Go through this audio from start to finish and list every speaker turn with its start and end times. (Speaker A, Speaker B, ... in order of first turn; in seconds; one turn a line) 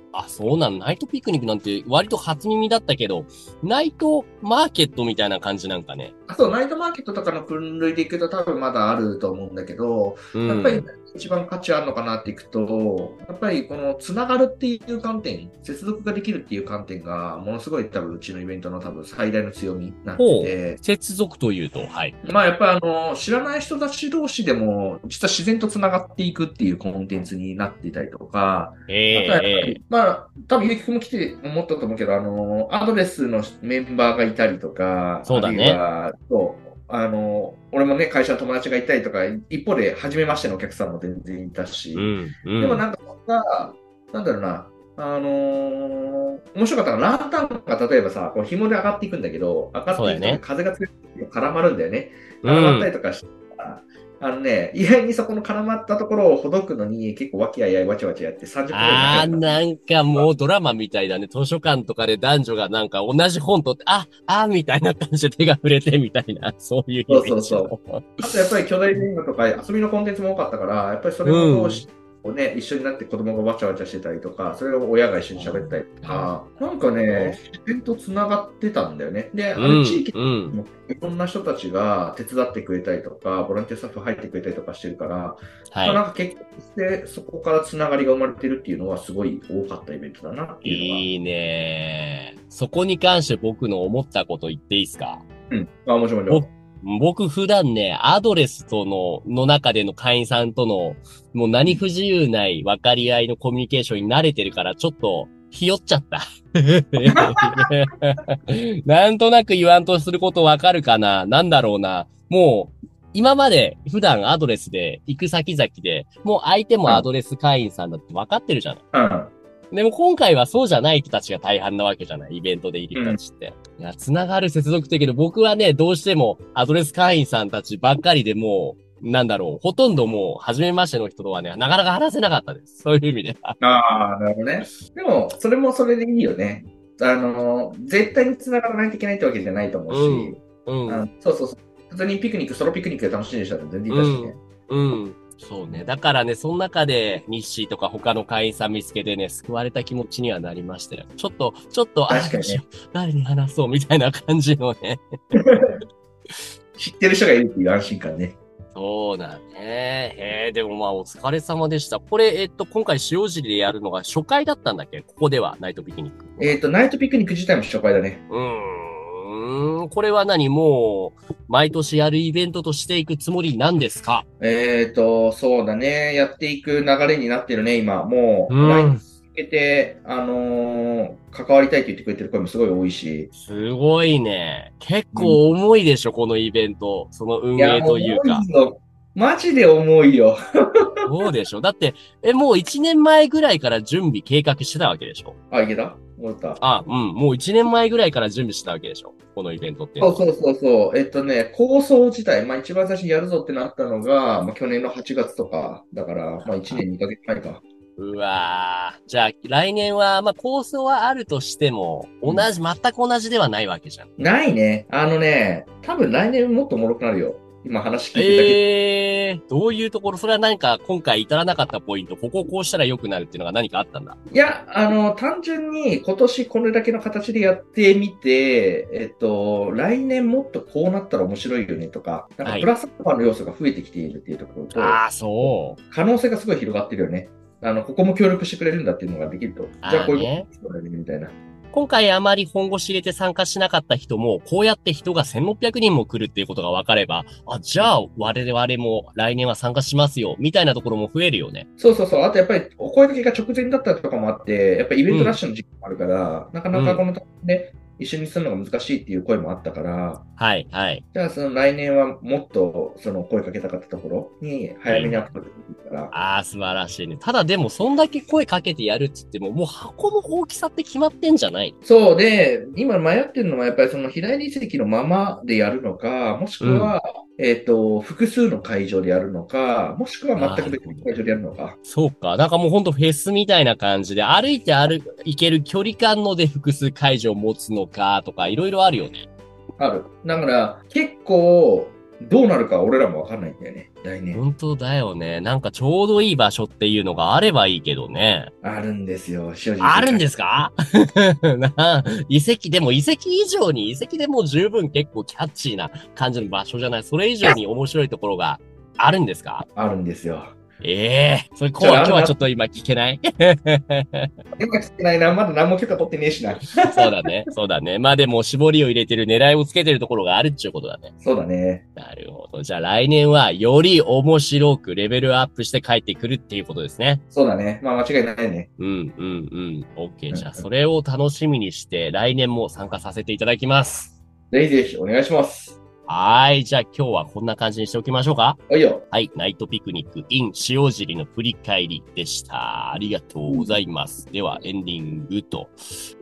Speaker A: 0.1-6.1
Speaker B: 6.3-20.8
Speaker A: 10.3-10.9
Speaker A: 20.2-22.2
Speaker B: 22.2-60.3
Speaker A: 28.9-29.8
Speaker A: 35.2-35.8
Speaker A: 42.0-42.8
Speaker A: 49.9-50.4
Speaker A: 52.4-52.9
Speaker A: 58.7-68.2
Speaker B: 67.1-91.0
Speaker A: 71.2-71.8
Speaker A: 75.3-76.3
Speaker A: 77.0-77.4
Speaker A: 79.6-80.6
Speaker A: 85.7-86.0
Speaker A: 90.6-95.2
Speaker B: 95.5-96.5
Speaker A: 96.3-118.8
Speaker B: 118.9-119.3
Speaker A: 119.7-133.6
Speaker B: 133.6-144.4
Speaker A: 139.9-141.1
Speaker A: 143.9-155.0
Speaker B: 152.1-152.6
Speaker B: 155.4-155.7
Speaker B: 156.8-158.3
Speaker A: 158.7-166.6
Speaker B: 166.4-168.2
Speaker A: 168.3-174.2
Speaker B: 174.4-183.3
Speaker A: 178.5-179.0
Speaker A: 183.3-188.4
Speaker B: 185.1-185.4
Speaker B: 187.6-190.4
Speaker A: 191.1-195.3
Speaker B: 195.5-196.6
Speaker A: 196.6-200.2
Speaker B: 200.0-207.6
Speaker A: 206.4-206.8
Speaker A: 208.0-214.1
Speaker B: 214.2-218.6
Speaker A: 218.1-224.2
Speaker B: 224.3-241.3
Speaker A: 232.4-232.7
Speaker A: 234.7-235.8
Speaker A: 239.8-240.5
Speaker A: 241.7-251.7
Speaker B: 251.8-260.2
Speaker A: 255.1-255.4
Speaker A: 256.7-257.0
Speaker A: 260.4-261.0
Speaker B: 261.1-266.1
Speaker A: 264.9-265.2
Speaker A: 266.1-271.7
Speaker B: 271.8-281.8
Speaker A: 276.6-276.9
Speaker A: 280.4-281.1
Speaker A: 281.9-289.2
Speaker B: 289.8-294.4
Speaker A: 294.3-298.5
Speaker B: 298.6-300.2
Speaker A: 299.8-309.6
Speaker B: 309.7-310.5
Speaker A: 310.8-314.3
Speaker B: 311.8-312.4
Speaker B: 314.6-317.2
Speaker A: 316.8-321.1
Speaker B: 321.2-321.8
Speaker A: 321.9-327.2
Speaker B: 327.3-328.7
Speaker A: 328.8-334.1
Speaker B: 330.3-330.6
Speaker B: 334.5-335.8
Speaker A: 336.1-345.7
Speaker B: 338.7-339.0
Speaker B: 343.5-343.7